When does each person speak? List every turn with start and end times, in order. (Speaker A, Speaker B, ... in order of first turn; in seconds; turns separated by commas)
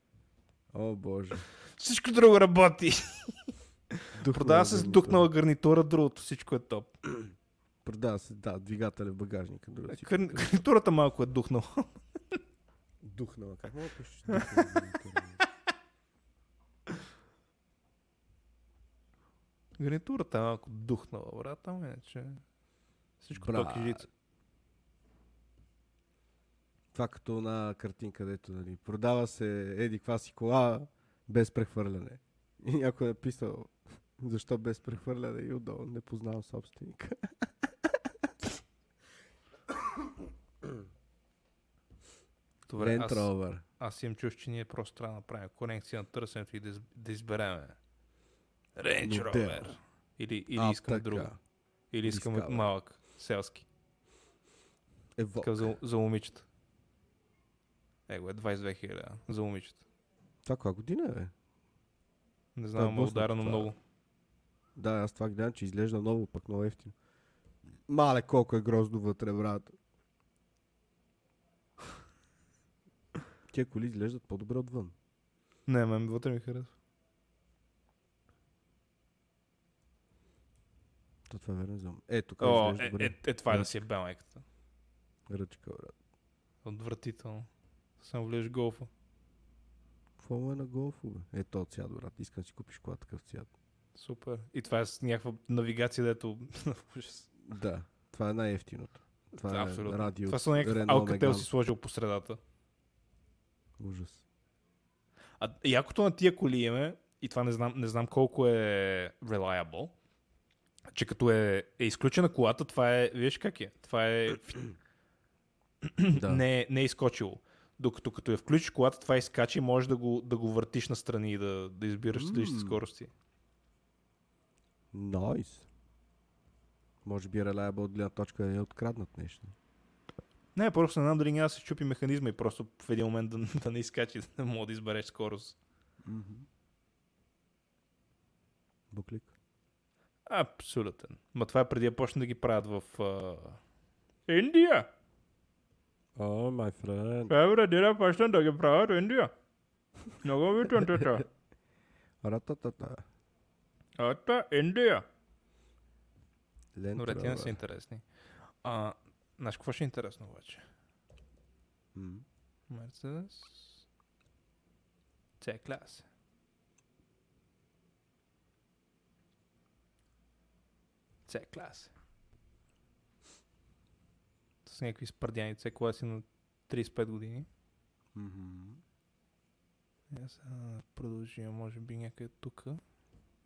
Speaker A: 0.7-1.5, Speaker B: 1.8-3.5, Speaker A: 4.1-5.3, Speaker B: 4.2-6.9, Speaker A: 7.8-10.5, Speaker B: 9.9-12.0, Speaker A: 13.0-15.4, Speaker B: 19.8-22.4, Speaker B: 23.2-24.1, Speaker A: 23.4-24.1, Speaker A: 26.9-37.3, Speaker B: 42.7-47.8, Speaker A: 42.8-43.6, Speaker B: 48.8-51.3, Speaker A: 49.0-49.7, Speaker A: 50.5-51.4, Speaker B: 51.9-53.7, Speaker A: 52.0-52.7, Speaker A: 55.2-55.7, Speaker B: 55.4-56.5, Speaker B: 58.1-59.8, Speaker A: 60.5-61.3, Speaker B: 62.6-63.8, Speaker A: 62.8-63.7, Speaker A: 64.8-67.0, Speaker A: 67.9-69.8, Speaker A: 73.5-75.0, Speaker B: 75.7-76.7, Speaker A: 81.3-83.8, Speaker B: 82.4-84.4, Speaker A: 85.3-86.0, Speaker B: 86.7-87.5, Speaker B: 88.0-88.9, Speaker A: 90.2-93.5, Speaker B: 94.0-97.3, Speaker A: 97.4-101.5, Speaker B: 99.4-102.4, Speaker A: 103.8-104.2, Speaker B: 105.4-109.9, Speaker B: 110.9-114.6, Speaker B: 115.8-123.1, Speaker A: 116.1-116.4, Speaker A: 122.1-122.8, Speaker A: 124.9-125.7, Speaker A: 127.0-129.6, Speaker B: 130.6-135.6, Speaker A: 136.0-136.5, Speaker A: 138.9-139.3, Speaker B: 140.3-143.6, Speaker B: 144.3-144.9, Speaker A: 146.2-147.3, Speaker B: 147.3-149.3, Speaker B: 150.2-151.3, Speaker A: 152.2-153.0, Speaker B: 154.0-155.1, Speaker A: 156.8-157.6, Speaker B: 157.0-160.7, Speaker A: 161.9-162.2, Speaker B: 162.7-163.8, Speaker B: 165.4-166.1, Speaker B: 171.3-171.9, Speaker B: 174.7-177.5, Speaker A: 178.2-178.8, Speaker B: 180.1-182.8